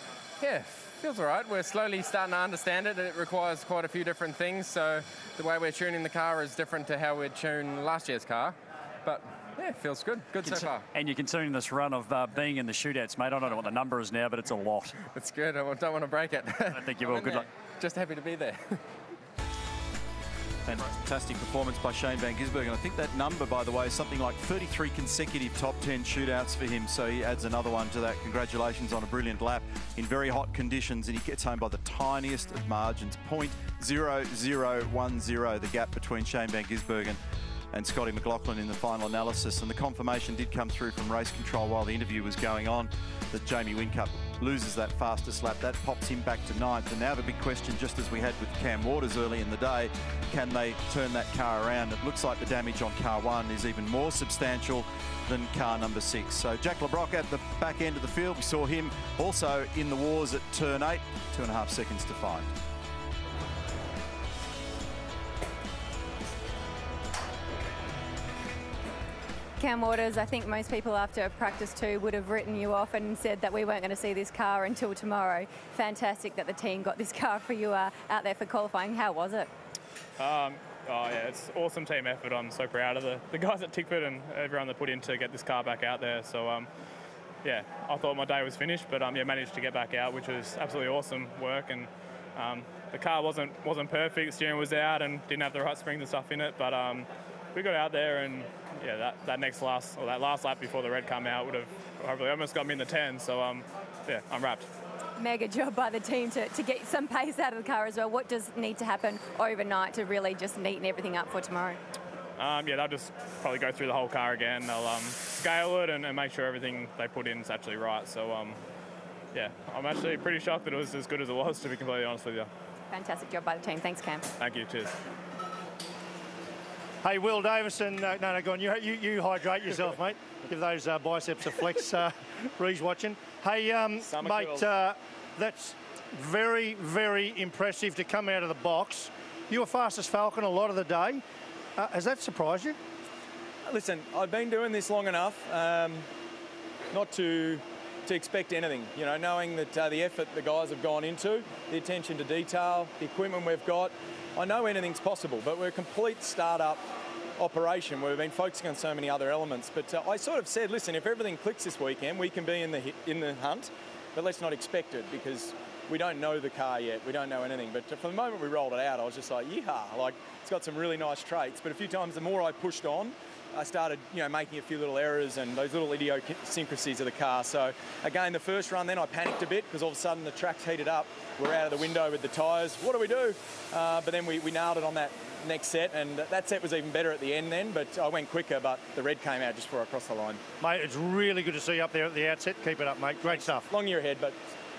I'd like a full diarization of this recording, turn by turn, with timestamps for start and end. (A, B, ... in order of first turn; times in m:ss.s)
0:00.4-0:10.8 A
0:10.4-0:15.0 B
0:15.1-0:18.8 A
0:16.7-0:17.5 B
0:20.6-0:37.2 C
0:37.7-1:02.5 C
1:09.6-1:19.5 D
1:20.2-1:26.7 E
1:27.4-1:44.7 E
1:45.2-1:51.8 D
1:52.4-1:58.6 E
1:59.3-2:02.5 E
2:02.9-2:04.3 D
2:04.4-2:04.9 E
2:07.0-2:21.2 F
2:14.0-2:14.7 G
2:21.8-2:22.8 F
2:23.7-2:26.0 G
2:26.9-2:36.8 G
2:37.4-3:10.4 G
3:10.6-3:13.7 F
3:13.2-3:14.4 G